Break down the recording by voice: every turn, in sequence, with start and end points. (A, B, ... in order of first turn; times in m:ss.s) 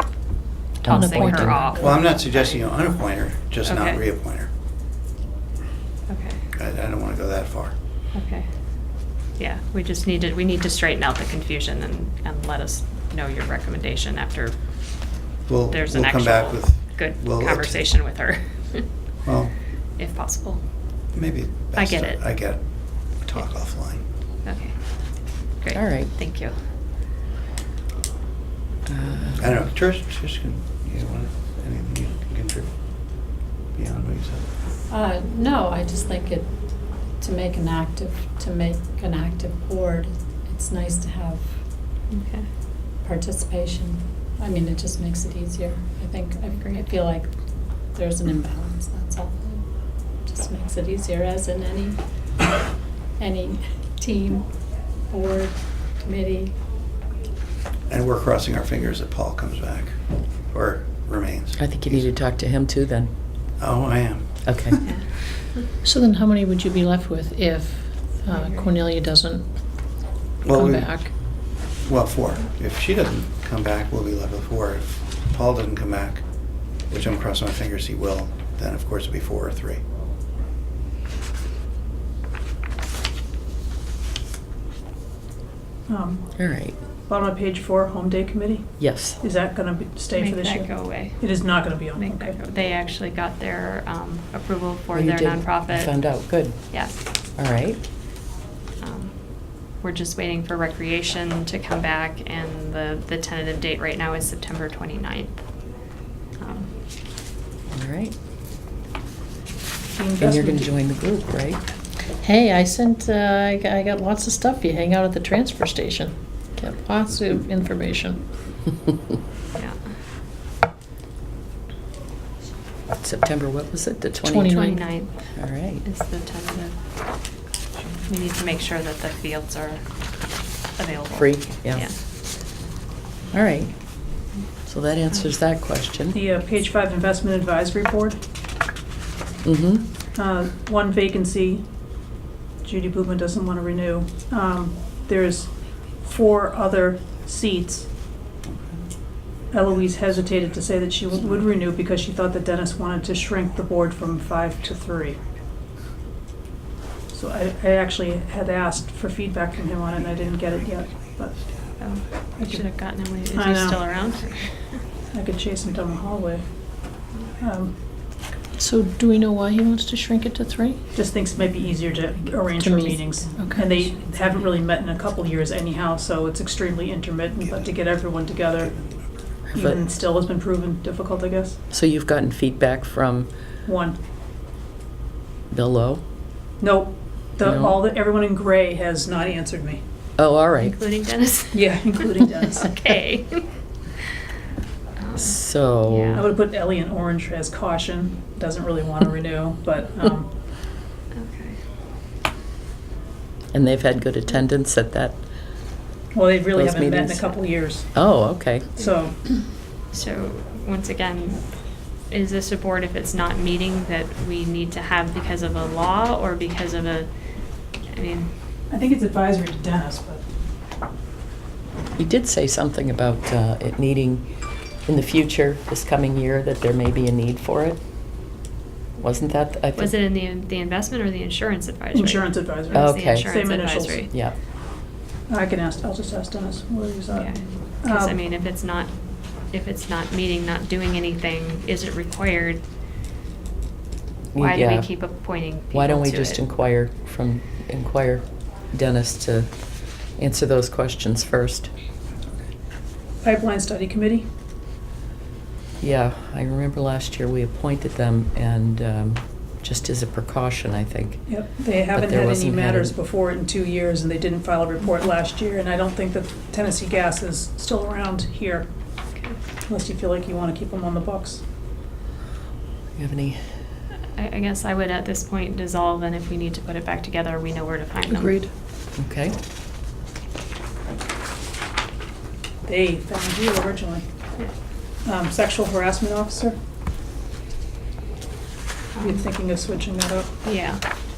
0:00.8-0:01.7 A
0:00.8-0:01.8 B
0:00.9-0:02.6 C
0:01.8-0:04.5 D
0:03.6-0:04.0 C
0:06.1-0:06.4 C
0:06.5-0:07.7 D
0:08.1-0:08.5 C
0:09.3-0:14.6 C
0:15.4-0:18.1 D
0:15.7-0:18.9 C
0:19.2-0:19.6 D
0:20.0-0:20.6 C
0:21.1-0:24.0 D
0:21.8-0:22.2 C
0:24.4-0:26.6 C
0:25.7-0:26.1 A
0:28.9-0:29.5 A
0:29.4-0:32.8 D
0:33.7-0:34.5 D
0:34.9-0:41.6 E
0:42.1-0:42.5 C
0:43.0-0:47.3 E
0:47.8-0:49.6 E
0:50.2-0:52.0 E
0:53.2-0:56.5 E
0:57.9-1:02.1 D
1:01.6-1:03.1 A
1:03.6-1:04.9 D
1:04.4-1:04.8 A
1:04.8-1:05.4 C
1:05.8-1:09.9 B
1:08.3-1:08.7 C
1:10.4-1:11.1 D
1:10.4-1:11.1 B
1:11.6-1:16.3 D
1:16.9-1:19.8 D
1:25.9-1:26.4 F
1:26.4-1:26.8 A
1:27.1-1:32.3 F
1:28.8-1:29.2 A
1:30.1-1:37.0 C
1:34.9-1:37.8 A
1:38.8-1:45.4 C
1:46.4-1:46.7 C
1:47.7-1:48.1 A
1:49.9-1:50.7 F
1:50.2-1:51.7 A
1:52.2-1:58.2 B
2:02.9-2:04.6 A
2:04.2-2:04.8 B
2:04.5-2:05.3 C
2:05.3-2:05.8 A
2:05.8-2:06.8 C
2:08.0-2:10.0 C
2:10.8-2:12.0 C
2:11.1-2:11.9 A
2:13.3-2:13.7 A
2:14.6-2:16.2 A
2:16.1-2:18.2 F
2:19.4-2:19.9 A
2:20.1-2:21.7 F
2:22.6-2:27.9 F
2:28.4-2:28.8 D
2:29.5-2:35.2 F
2:37.1-2:41.5 F
2:41.8-2:44.8 C
2:42.4-2:42.7 F
2:43.3-2:43.9 F
2:45.1-2:46.5 F
2:47.4-2:47.7 F
2:48.5-2:50.8 B
2:50.9-2:58.7 F
2:52.5-2:54.0 B
2:57.4-2:59.4 D
2:59.5-2:59.8 A
2:59.5-3:01.6 F
3:01.7-3:03.3 A
3:03.6-3:04.0 F
3:05.5-3:06.0 A
3:06.6-3:09.8 F
3:07.4-3:07.8 A
3:10.2-3:10.8 A
3:10.6-3:13.5 C
3:11.5-3:12.8 F
3:15.0-3:16.2 C
3:15.2-3:16.3 A
3:16.1-3:20.3 F
3:21.1-3:21.6 C
3:23.5-3:25.2 A
3:26.1-3:28.1 F
3:26.5-3:28.7 A
3:28.8-3:29.2 F
3:29.9-3:37.1 C
3:37.8-3:38.3 C
3:38.7-3:40.2 F
3:42.0-3:48.3 A
3:49.0-3:49.9 A
3:49.8-3:54.1 C
3:51.9-3:54.1 F
3:52.7-3:53.4 A
3:54.1-3:54.4 A
3:55.3-3:58.2 F
3:57.1-4:02.6 C
4:04.3-4:05.1 A
4:04.4-4:06.4 C
4:05.7-4:11.7 A
4:13.2-4:14.3 F
4:15.8-4:23.0 A
4:21.2-4:28.7 F
4:29.7-4:31.4 F
4:33.0-4:33.5 A
4:34.1-4:38.3 C
4:38.1-4:38.5 B
4:39.0-4:39.4 A
4:42.6-4:44.0 F
4:45.0-4:46.6 F
4:49.0-4:49.3 C
4:49.0-4:50.3 F
4:50.4-4:50.8 C